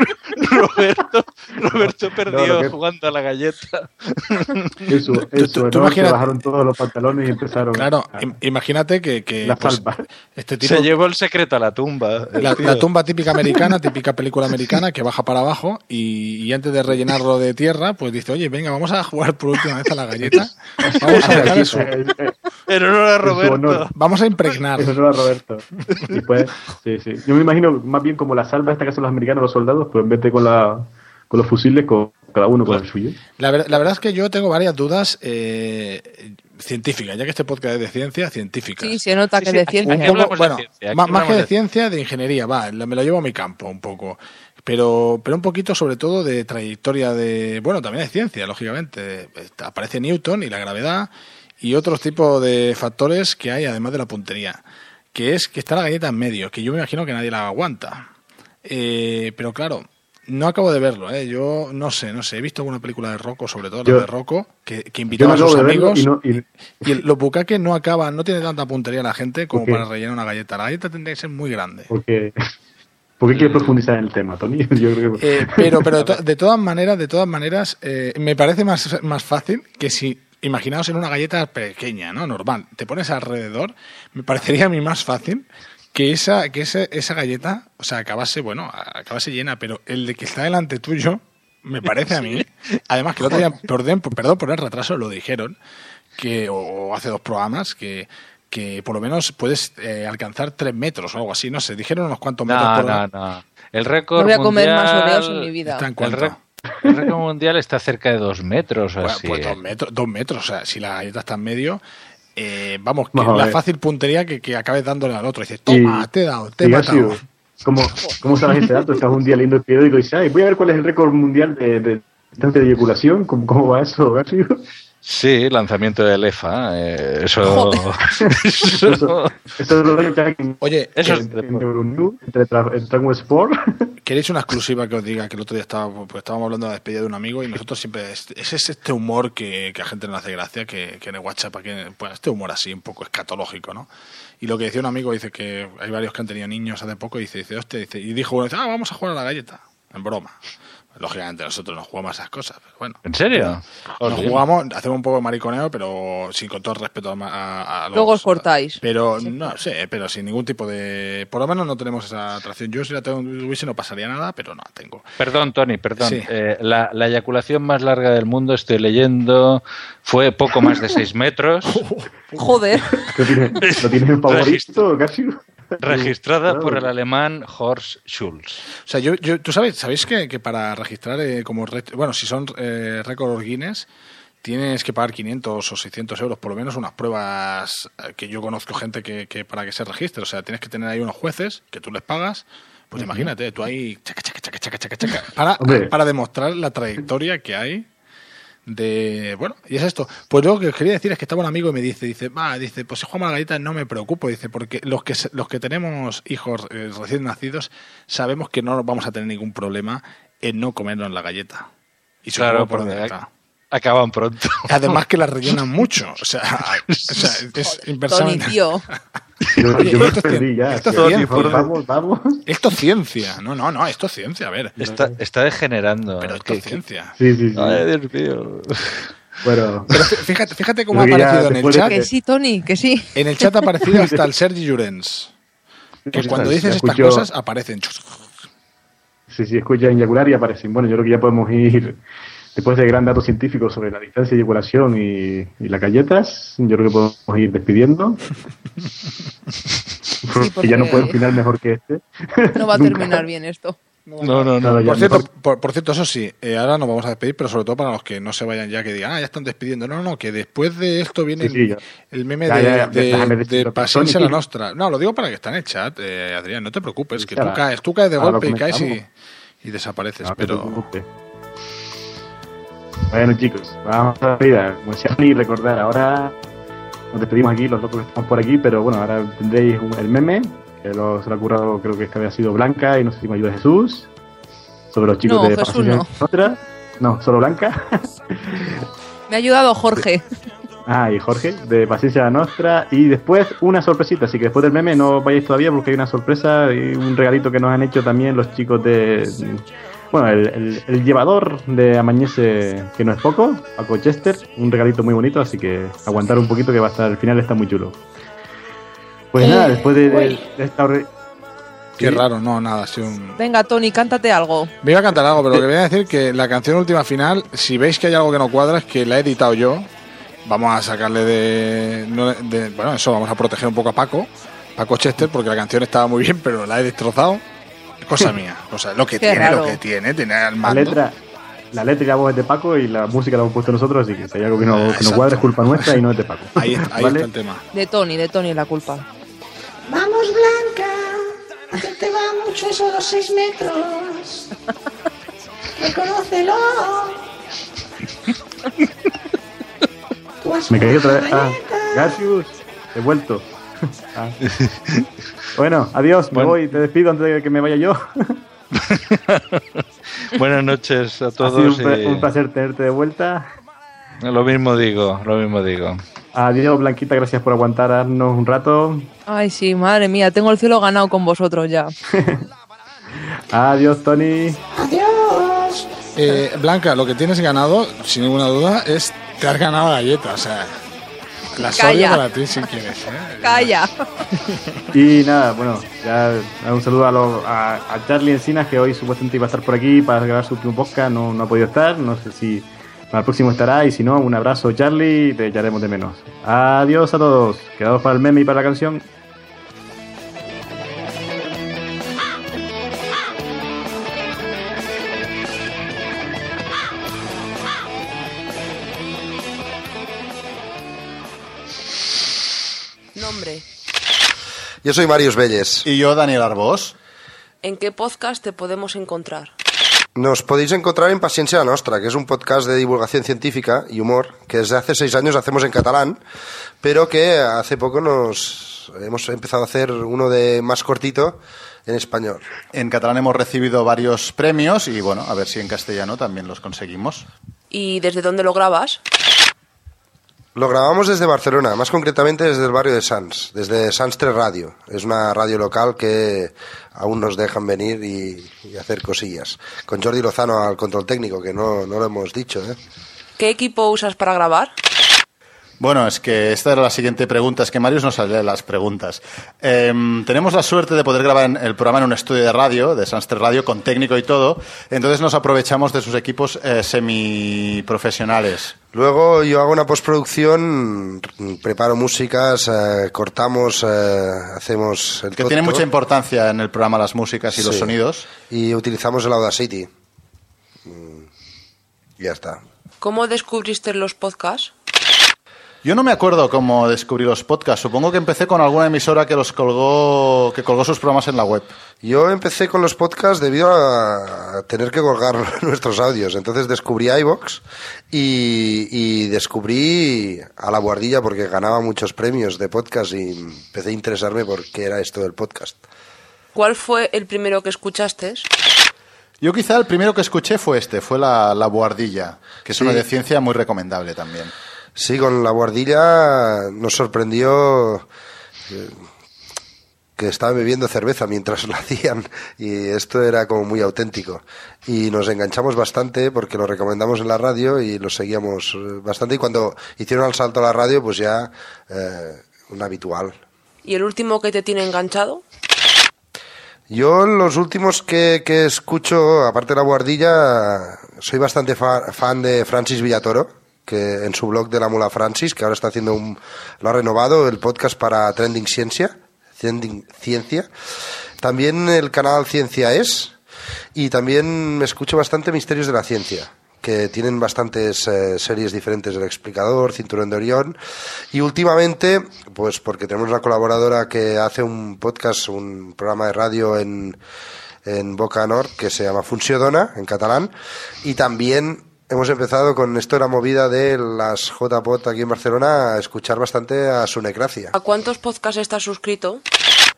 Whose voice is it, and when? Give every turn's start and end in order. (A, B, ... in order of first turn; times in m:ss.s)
0:00.4-0:04.5 A
0:02.3-0:02.7 B
0:04.9-0:08.3 B
0:05.3-0:06.4 C
0:07.7-0:10.9 C
0:09.4-0:10.0 B
0:10.6-0:12.8 A
0:12.4-0:21.9 C
0:21.1-0:21.5 A
0:21.1-0:22.3 B
0:22.7-0:23.9 A
0:23.2-0:23.9 B
0:23.9-0:25.0 C
0:24.8-0:33.2 B
0:33.4-0:39.0 C
0:38.8-0:40.2 D
0:39.4-0:41.5 A
0:39.8-0:58.1 C
0:58.6-1:06.2 C
1:05.1-1:07.0 B
1:06.8-1:11.9 C
1:09.5-1:09.8 B
1:11.9-1:12.3 B
1:13.2-1:16.2 B
1:13.3-1:13.8 C
1:15.2-1:35.6 C
1:36.2-1:43.0 C
1:42.5-1:49.6 A
1:44.2-1:45.9 D
1:45.6-1:46.4 C
1:49.0-1:51.8 C
1:52.4-1:57.2 C
1:53.1-1:53.6 B
1:55.7-1:56.1 B
1:56.6-2:04.6 B
2:05.0-2:09.3 A
2:07.5-2:07.8 D
2:08.8-2:13.6 B
2:10.6-2:11.0 C
2:14.0-2:23.9 C
2:24.4-2:30.4 C
2:31.0-2:45.1 C
2:33.0-2:34.4 A
2:37.9-2:39.6 D
2:45.2-2:51.8 A
2:46.0-2:46.3 C
2:51.7-2:52.5 C
2:52.4-2:52.8 D
2:53.1-2:56.9 B
2:54.3-2:54.7 A
2:55.8-2:58.6 A
2:58.8-3:03.9 C
3:04.4-3:17.9 C
3:13.0-3:13.3 B
3:15.6-3:15.9 B
3:18.7-3:31.7 C
3:32.2-3:33.3 C
3:32.4-3:33.1 A
3:33.7-3:34.7 A
3:34.7-3:38.6 C
3:36.9-3:37.3 A
3:38.1-3:38.8 D
3:39.6-3:42.4 B
3:39.7-3:41.7 C
3:41.0-3:41.7 A
3:42.5-3:44.8 C
3:44.8-3:46.8 A
3:46.2-3:47.1 C
3:47.2-3:47.8 B
3:47.6-3:49.1 A
3:49.4-3:49.9 B
3:49.9-3:52.0 C
3:50.9-3:52.1 B
3:51.9-3:53.1 D
3:53.2-3:55.3 C
3:56.1-3:57.3 B
3:56.1-3:58.3 C
3:59.3-4:02.0 B
4:02.6-4:08.2 B
4:10.3-4:13.3 B
4:10.4-4:11.2 D
4:12.6-4:13.8 D
4:14.1-4:29.1 C
4:14.2-4:14.9 A
4:14.6-4:15.3 B
4:21.4-4:21.8 B
4:22.5-4:24.4 B
4:27.2-4:27.6 B
4:28.2-4:29.0 B
4:29.6-4:30.9 C
4:30.2-4:31.0 B
4:33.1-4:36.4 B
4:37.1-4:44.1 B
4:44.9-4:47.9 B
4:45.2-4:46.1 D
4:48.4-4:48.8 B
4:49.3-4:50.2 D
4:50.9-5:08.0 B
5:09.3-5:11.1 B
5:09.4-5:10.4 D
5:12.0-5:13.4 C
5:13.4-5:14.7 D
5:14.8-5:19.9 C
5:20.4-5:27.4 C
5:28.0-5:31.0 C
5:29.2-5:29.8 D
5:30.6-5:31.2 B
5:31.7-5:37.3 B
5:34.7-5:36.0 C
5:36.6-5:37.6 C
5:37.7-5:39.0 D
5:39.9-5:44.4 E
5:45.8-5:47.3 E
5:50.4-5:52.2 E
5:50.7-5:53.5 B
5:55.6-5:58.4 B
5:56.3-5:56.6 A
5:58.9-5:59.6 A
6:00.3-6:02.3 A
6:01.4-6:03.5 B
6:04.2-6:06.0 A
6:06.4-6:09.1 B
6:09.3-6:11.9 D
6:12.2-6:12.4 B
6:13.5-6:14.6 B
6:14.7-6:16.4 E
6:16.2-6:20.8 C
6:21.6-6:23.8 C
6:21.6-6:22.2 D
6:23.4-6:23.9 D
6:24.9-6:39.1 B
6:53.2-6:53.6 F
6:54.8-6:55.8 G
6:55.9-6:56.9 H
6:57.6-6:59.5 F
7:00.2-7:06.2 G
7:06.8-7:12.4 G
7:12.7-7:17.3 H
7:17.7-7:19.0 F
7:20.6-7:32.8 G
7:33.4-7:34.7 F
7:35.8-7:48.8 H
7:48.9-7:55.8 G
7:55.4-7:58.3 H
7:57.6-7:59.9 G
8:00.8-8:01.3 G
8:02.2-8:02.6 G
8:03.0-8:04.7 F
8:05.8-8:11.7 H
8:12.0-8:25.8 G
8:26.6-8:28.5 F
8:29.4-8:34.5 H
8:35.0-8:38.0 G
8:38.7-8:39.0 G
8:40.2-8:53.4 G
8:53.8-8:55.4 F
8:56.9-9:10.7 G
9:11.4-9:13.4 G
9:14.0-9:20.8 G
9:21.3-9:27.2 G
9:27.9-9:30.5 G
9:31.0-9:37.7 G
9:37.7-9:39.4 F